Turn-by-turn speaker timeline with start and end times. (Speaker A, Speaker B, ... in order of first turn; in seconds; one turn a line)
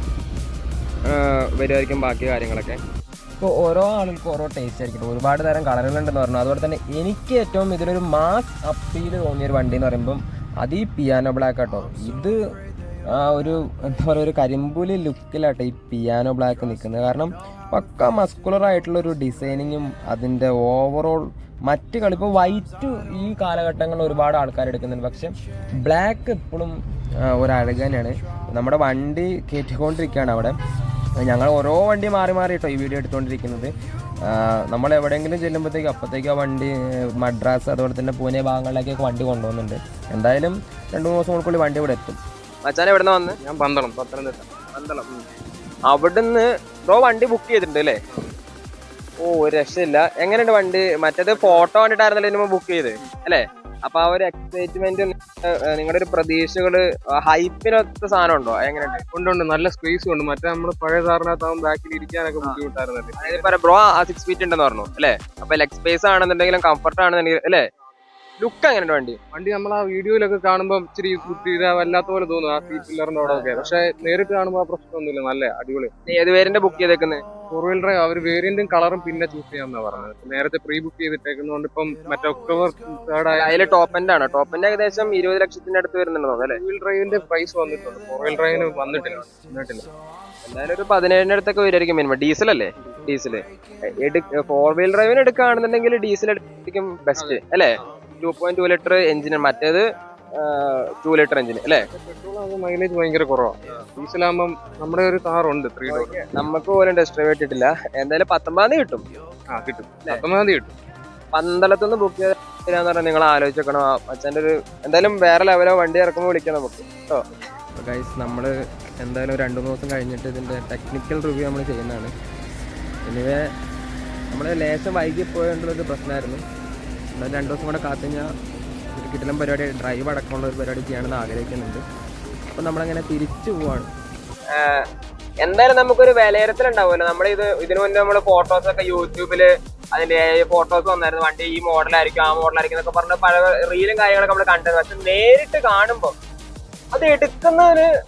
Speaker A: 1.1-2.8
Speaker B: 3.4-12.4
Speaker B: 13.1-25.3
Speaker B: 25.8-26.8
Speaker B: 27.3-30.5
Speaker B: 31.2-33.7
Speaker B: 34.3-42.2
Speaker A: 42.6-43.4
Speaker C: 43.4-44.5
Speaker A: 44.7-45.2
Speaker A: 45.9-48.0
Speaker A: 49.2-59.0
Speaker C: 59.1-63.5
Speaker A: 63.2-67.6
Speaker A: 68.4-69.2
Speaker C: 69.3-75.9
Speaker A: 76.1-77.2
Speaker C: 77.5-83.6
Speaker A: 83.3-86.6
Speaker C: 86.4-89.8
Speaker A: 88.4-89.1
Speaker A: 90.4-93.4
Speaker A: 94.0-99.8
Speaker A: 100.4-101.8
Speaker C: 101.9-106.1
Speaker A: 105.9-109.0
Speaker C: 109.5-110.7
Speaker A: 111.3-117.2
Speaker B: 117.8-122.1
Speaker B: 123.1-123.5
Speaker B: 124.3-126.4
Speaker B: 127.1-128.3
Speaker B: 129.0-131.8
Speaker B: 132.6-133.9
Speaker A: 134.5-134.8
Speaker A: 135.4-146.1
Speaker A: 146.9-147.9